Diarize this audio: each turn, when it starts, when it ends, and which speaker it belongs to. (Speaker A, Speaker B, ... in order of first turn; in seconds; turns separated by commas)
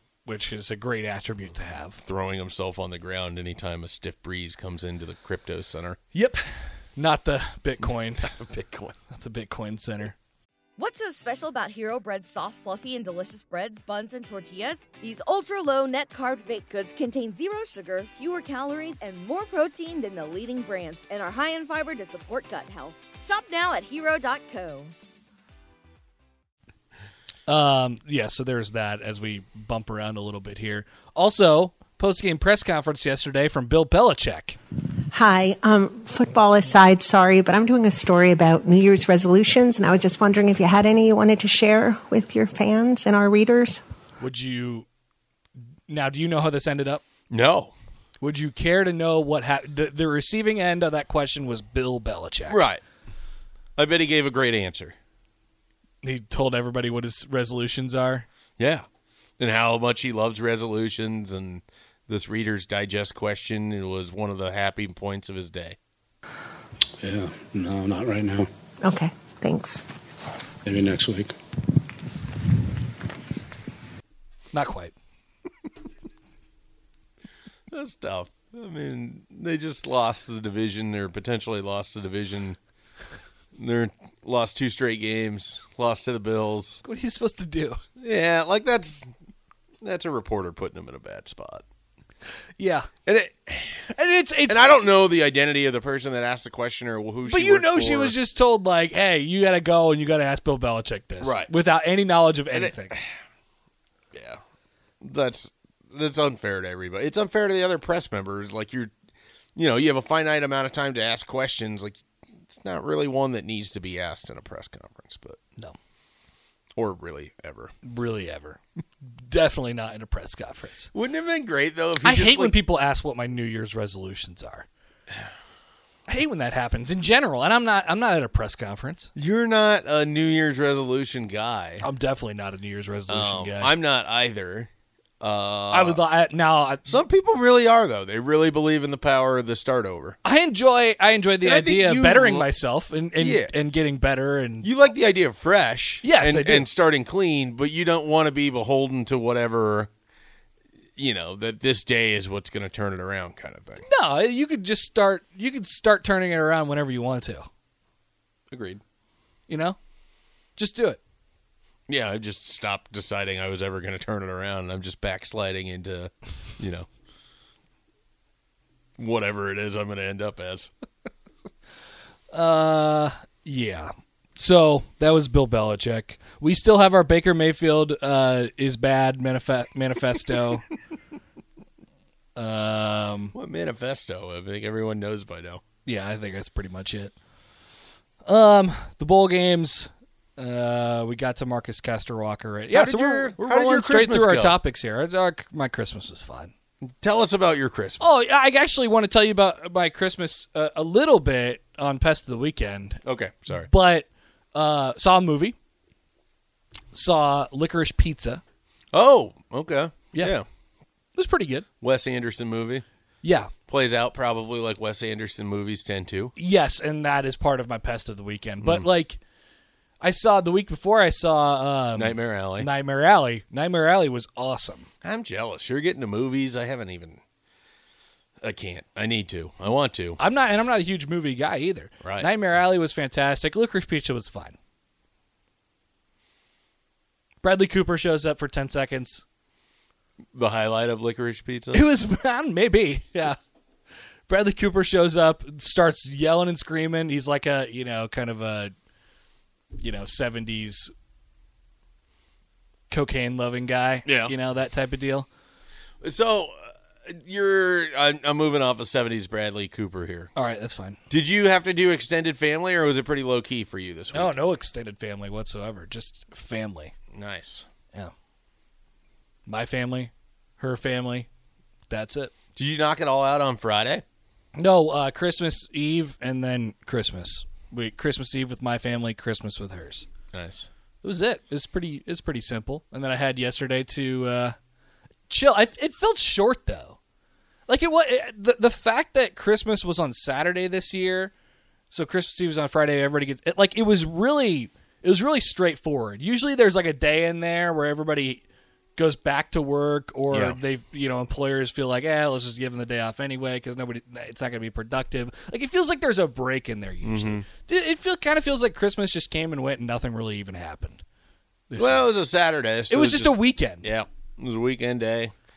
Speaker A: 0.2-2.0, Speaker B: 2.0-6.0, Speaker A: 6.1-8.3, Speaker B: 7.8-8.9, Speaker A: 9.1-10.2, Speaker C: 10.8-24.9, Speaker A: 27.5-34.6, Speaker D: 35.1-43.8, Speaker A: 44.2-44.9, Speaker A: 45.9-47.0, Speaker B: 47.3-47.7, Speaker A: 48.2-52.6, Speaker B: 52.5-52.8, Speaker B: 53.8-54.9, Speaker A: 56.0-58.2, Speaker B: 58.6-58.8, Speaker B: 59.4-65.8, Speaker E: 67.0-68.5, Speaker D: 68.8-69.8, Speaker E: 70.7-71.3, Speaker A: 74.5-74.9, Speaker B: 77.7-82.6, Speaker B: 83.5-86.8, Speaker A: 86.8-87.8, Speaker B: 88.0-89.1, Speaker B: 89.8-91.6, Speaker A: 92.6-92.9, Speaker B: 93.0-93.8, Speaker A: 93.9-94.7, Speaker B: 94.5-98.2, Speaker A: 97.2-103.0, Speaker B: 101.2-101.5, Speaker B: 102.5-103.0, Speaker B: 104.1-104.4, Speaker B: 105.0-108.9, Speaker B: 109.5-115.4, Speaker B: 116.8-117.7, Speaker A: 117.8-120.9, Speaker B: 120.9-122.6, Speaker A: 122.0-124.7, Speaker A: 126.1-129.1, Speaker B: 129.1-131.8, Speaker A: 131.8-133.7, Speaker B: 133.1-134.7, Speaker B: 135.2-136.0, Speaker A: 135.7-137.0, Speaker B: 136.8-140.2, Speaker A: 140.2-144.7, Speaker B: 141.4-142.5, Speaker B: 143.2-143.5, Speaker B: 144.6-149.9, Speaker A: 146.0-146.7, Speaker B: 151.0-153.8, Speaker A: 153.9-157.5, Speaker B: 158.5-158.8, Speaker A: 159.5-159.8, Speaker A: 160.6-161.0, Speaker B: 161.9-166.9, Speaker B: 169.0-170.7, Speaker A: 172.3-180.6, Speaker A: 182.3-183.3, Speaker B: 183.3-185.6, Speaker A: 185.8-187.1, Speaker A: 188.2-196.5, Speaker B: 192.7-194.6, Speaker B: 196.8-198.2, Speaker A: 198.0-205.6, Speaker B: 203.0-203.7, Speaker A: 206.9-208.4, Speaker B: 208.9-210.4, Speaker A: 211.1-211.7, Speaker B: 211.8-212.8, Speaker A: 213.2-213.5, Speaker B: 213.7-216.3, Speaker A: 216.3-219.2, Speaker B: 218.6-218.9, Speaker A: 220.0-224.9, Speaker B: 221.9-222.7, Speaker B: 225.0-227.2, Speaker B: 228.4-230.2, Speaker A: 230.2-234.6, Speaker B: 232.0-232.3, Speaker A: 237.4-239.2, Speaker B: 240.3-241.9, Speaker A: 241.7-243.4, Speaker A: 244.3-248.7, Speaker A: 249.8-250.9, Speaker A: 252.9-255.3, Speaker B: 254.0-254.3, Speaker B: 256.0-260.3, Speaker A: 260.3-261.0, Speaker B: 261.1-264.4, Speaker A: 264.1-266.9, Speaker B: 267.1-267.6, Speaker A: 269.5-271.3, Speaker A: 271.9-272.3, Speaker B: 272.6-274.0, Speaker A: 274.6-280.1, Speaker B: 280.3-280.7, Speaker A: 281.0-284.6, Speaker A: 285.3-287.0, Speaker A: 287.7-291.3, Speaker A: 291.9-298.4, Speaker A: 298.9-311.0, Speaker B: 300.3-300.6, Speaker B: 307.0-307.4, Speaker A: 311.7-312.1, Speaker B: 311.8-315.3, Speaker A: 312.9-313.9